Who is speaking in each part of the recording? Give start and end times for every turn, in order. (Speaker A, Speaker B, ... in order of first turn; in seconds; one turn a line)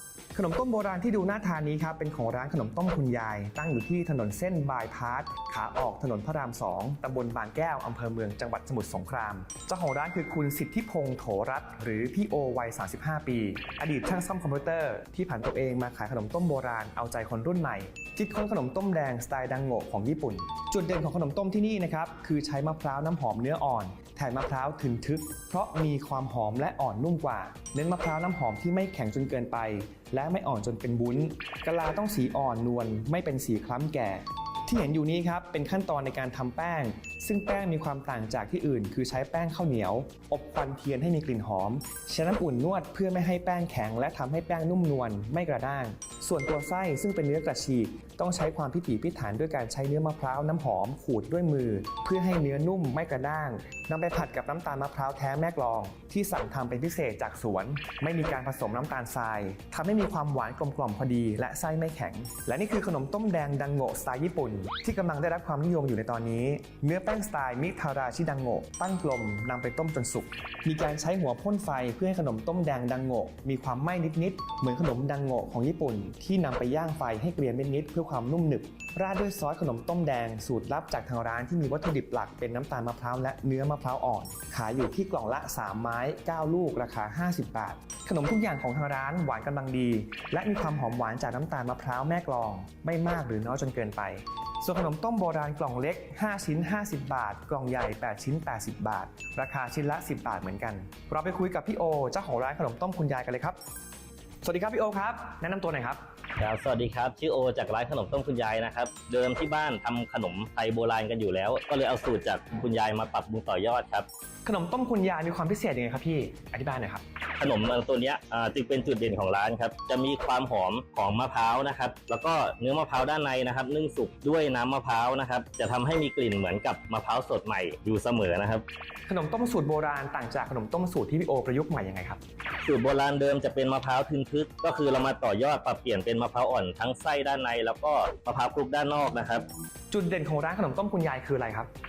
Speaker A: 0.3-103.6
Speaker A: 104.4-106.0
Speaker B: 106.4-114.1
Speaker A: 114.5-117.0
Speaker B: 117.4-128.6
Speaker A: 129.1-132.2
Speaker B: 132.6-139.5
Speaker A: 139.9-141.7